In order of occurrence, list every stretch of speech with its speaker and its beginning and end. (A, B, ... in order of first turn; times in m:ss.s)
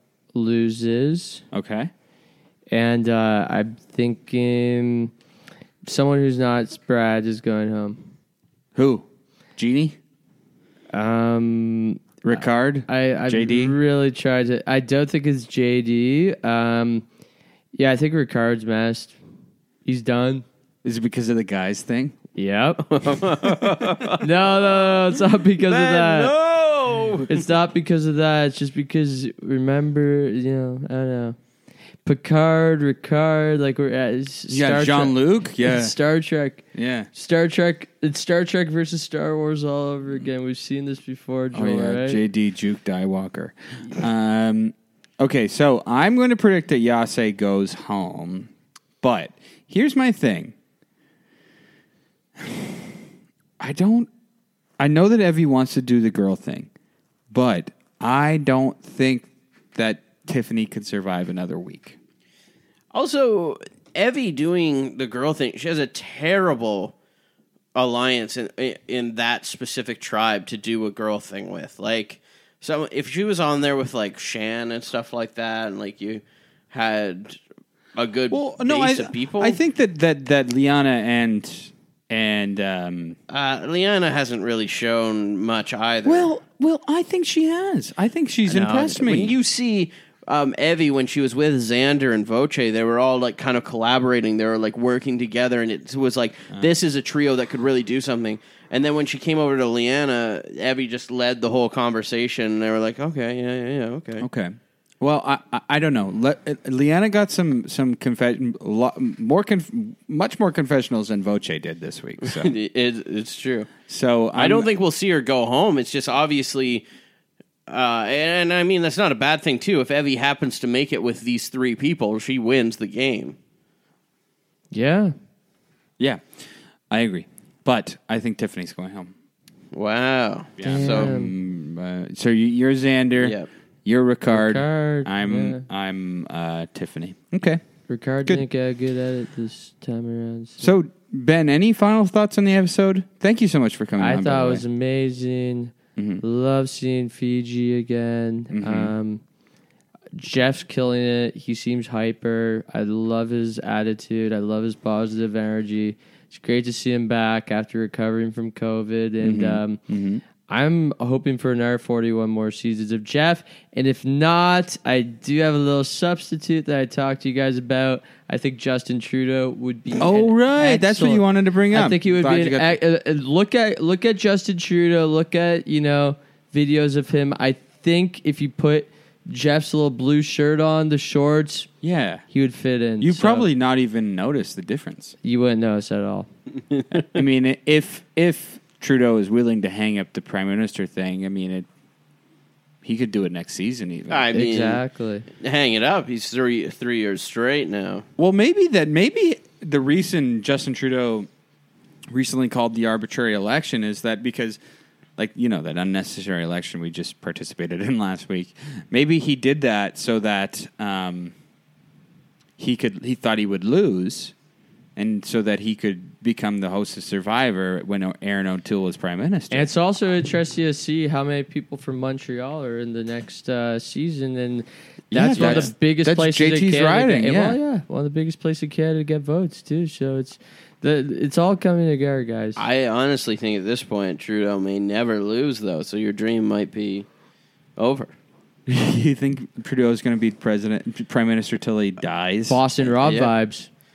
0:00.3-0:01.4 A
0:01.5-0:01.9 B
0:02.7-0:05.1 A
0:05.8-0:08.0 A
0:08.7-0:10.0 B
0:10.9-0:17.0 A
0:12.2-0:13.8 B
0:17.7-0:19.1 A
0:19.8-0:20.4 A
0:20.8-0:22.2 B
0:22.4-0:23.2 A
0:22.8-0:24.7 C
0:24.2-0:26.3 A
0:25.6-0:27.3 C
0:27.3-0:31.4 A
0:32.0-0:42.2 A
0:34.5-0:35.9 B
0:36.7-0:37.1 B
0:41.5-0:48.5 B
0:49.0-0:50.6 B
0:52.4-0:52.9 B
0:53.6-0:54.1 B
0:54.8-0:56.7 B
0:57.3-1:02.0 B
1:02.9-1:06.9 C
1:07.7-1:17.4 C
1:17.9-1:19.6 C
1:18.3-1:23.2 B
1:23.3-1:26.3 C
1:26.0-1:29.4 B
1:28.5-1:44.3 C
1:44.2-1:52.5 B
1:52.2-1:53.7 C
1:53.9-1:54.7 B
1:54.3-1:56.9 C
1:57.7-2:03.4 C
2:04.7-2:05.1 A
2:06.0-2:06.3 B
2:06.9-2:09.1 B
2:09.7-2:11.1 C
2:10.6-2:17.6 B
2:10.6-2:11.3 A
2:13.2-2:13.5 C
2:14.3-2:15.6 A
2:17.9-2:20.6 A
2:20.6-2:24.6 B
2:24.0-2:29.2 A
2:26.0-2:26.2 B
2:28.5-2:28.9 B
2:30.1-2:39.8 A
2:39.2-2:40.2 B
2:40.4-3:01.7 A
2:50.0-2:52.8 B
3:01.8-3:02.2 B
3:02.3-3:03.5 A
3:03.0-3:05.2 B
3:05.2-3:06.3 A
3:06.7-3:07.2 C
3:07.1-3:11.7 B
3:12.8-3:14.4 B
3:14.1-3:14.8 C
3:14.3-3:15.3 A
3:15.3-3:18.1 C
3:18.2-3:21.3 B
3:22.1-3:24.6 B
3:25.2-3:31.3 B
3:32.6-3:34.3 B
3:35.0-3:39.7 B
3:39.5-3:52.6 A
3:45.1-3:47.6 B
3:45.4-3:45.7 C
3:52.6-3:57.1 C
3:57.8-3:58.1 C
3:58.7-4:02.9 B
4:02.5-4:03.7 A
4:03.0-4:03.3 C